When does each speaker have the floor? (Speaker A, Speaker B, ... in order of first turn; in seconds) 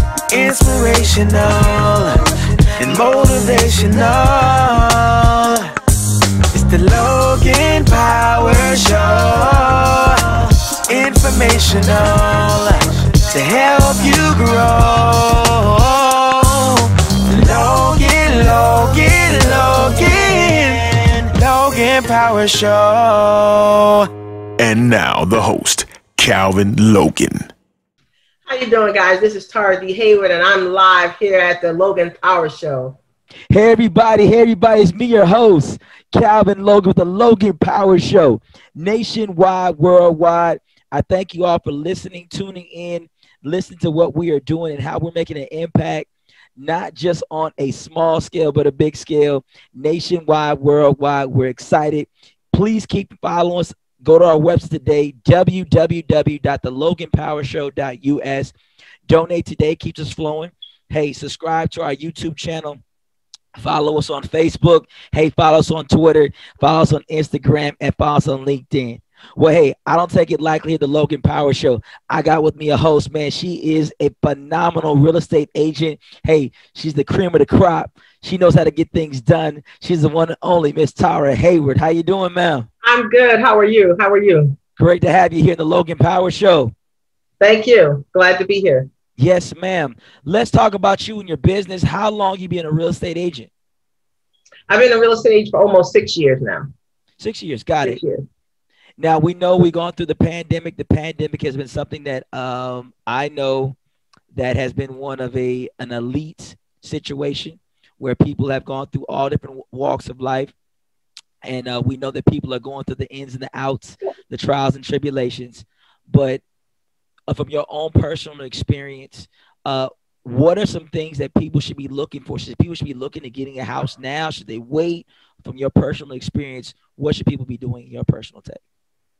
Speaker A: 0.3-5.7, 6.5-24.1
Speaker B: 24.6-27.5
Speaker C: 28.4-33.0, 82.8-84.5, 87.4-88.9, 94.7-96.7, 97.8-98.2
Speaker D: 33.5-58.5, 59.1-62.8, 63.6-82.7, 84.8-86.7, 89.2-93.5, 97.2-98.0, 99.0-103.7, 104.3-110.5, 111.4-116.4, 117.3-128.6